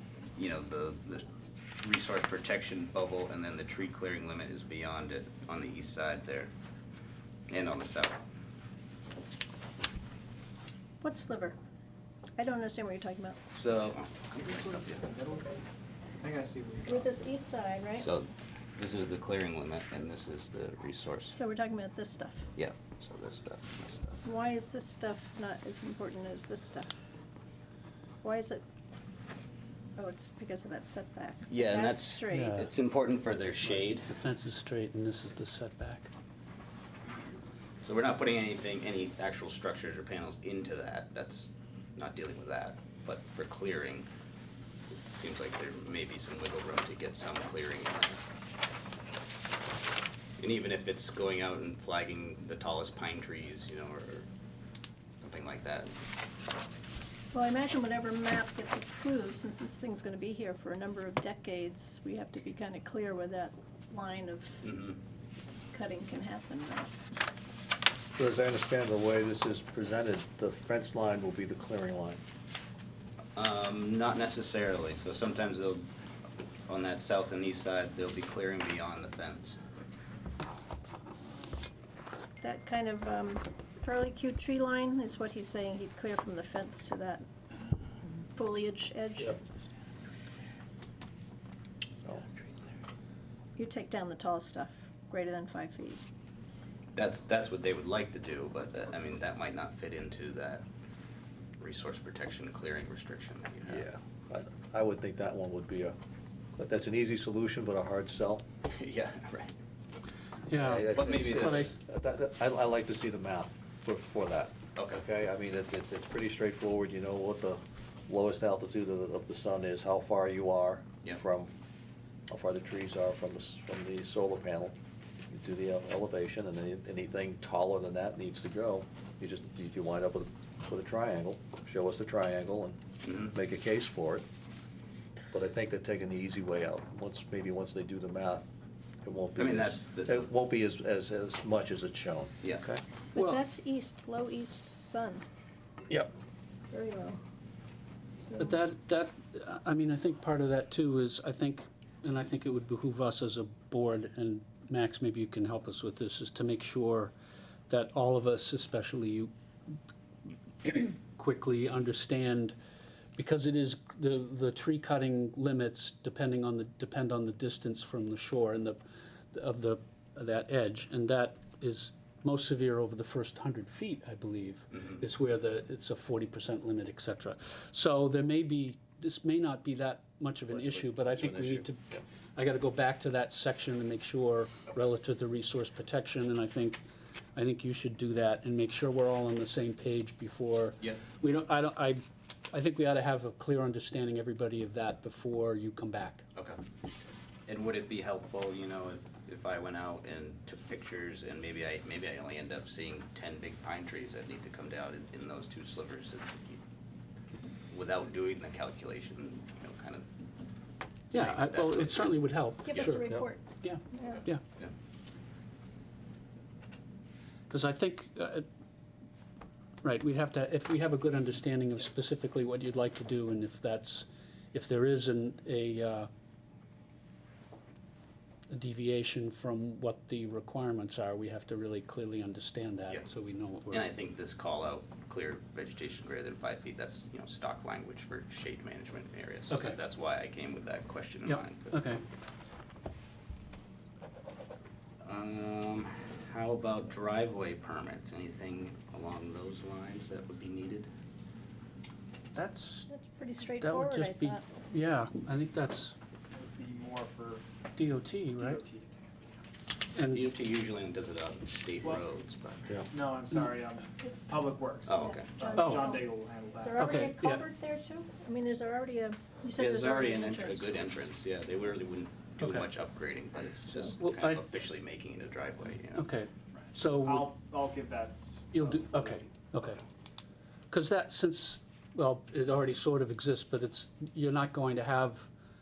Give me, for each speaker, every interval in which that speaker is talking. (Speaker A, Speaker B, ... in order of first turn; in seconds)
Speaker A: 0.3-1.2, 1.8-6.5, 7.5-8.2, 13.5-15.1, 18.0-21.3, 22.6-24.2, 31.5-34.1, 37.8-44.1, 44.9-48.2, 50.4-54.3, 55.2-55.9, 64.6-65.0, 73.3-75.9, 76.7-79.5, 96.9-100.6, 101.6-103.9, 108.7-109.5, 110.8-111.7, 114.8-115.0, 133.1-133.3, 139.4-140.3, 197.5-206.6, 207.7-210.0, 211.1-212.1, 233.7-241.8, 245.0-250.9, 260.1-262.7, 264.9-265.3, 269.6-276.1
Speaker B: 11.0-11.6, 12.4-13.4, 16.8-18.1, 21.3-22.5, 24.2-26.9, 28.2-28.6, 30.0-32.6, 57.3-64.7, 65.7-66.9, 82.4-87.2, 88.3-89.4, 93.5-96.0, 143.1-145.2, 146.7-147.2, 148.2-148.5, 212.6-214.2, 252.9-254.4, 264.0-264.3, 264.9-270.8
Speaker C: 14.5-15.6, 16.2-17.1, 256.3-257.4, 258.3-259.4, 262.9-267.0, 276.8-279.2
Speaker D: 32.3-32.7, 33.9-36.1, 110.5-111.7, 148.4-157.1, 157.7-159.3, 160.6-162.5, 163.2-168.8, 169.3-181.8, 182.3-186.8, 187.3-196.2, 211.1-214.4, 217.5-218.4, 219.8-226.1, 228.5-233.9, 239.5-239.8, 241.2-242.0, 252.3-252.9, 253.6-255.9, 257.8-258.6, 259.9-260.3, 265.6-265.9, 266.8-267.4, 272.4-272.6, 273.8-274.5, 275.9-277.4, 278.5-279.8, 280.7-285.3
Speaker E: 68.2-72.2, 103.7-105.9, 106.5-108.4, 110.6-121.5, 122.3-124.8, 125.3-132.8, 133.3-134.2, 135.3-142.8, 180.5-182.0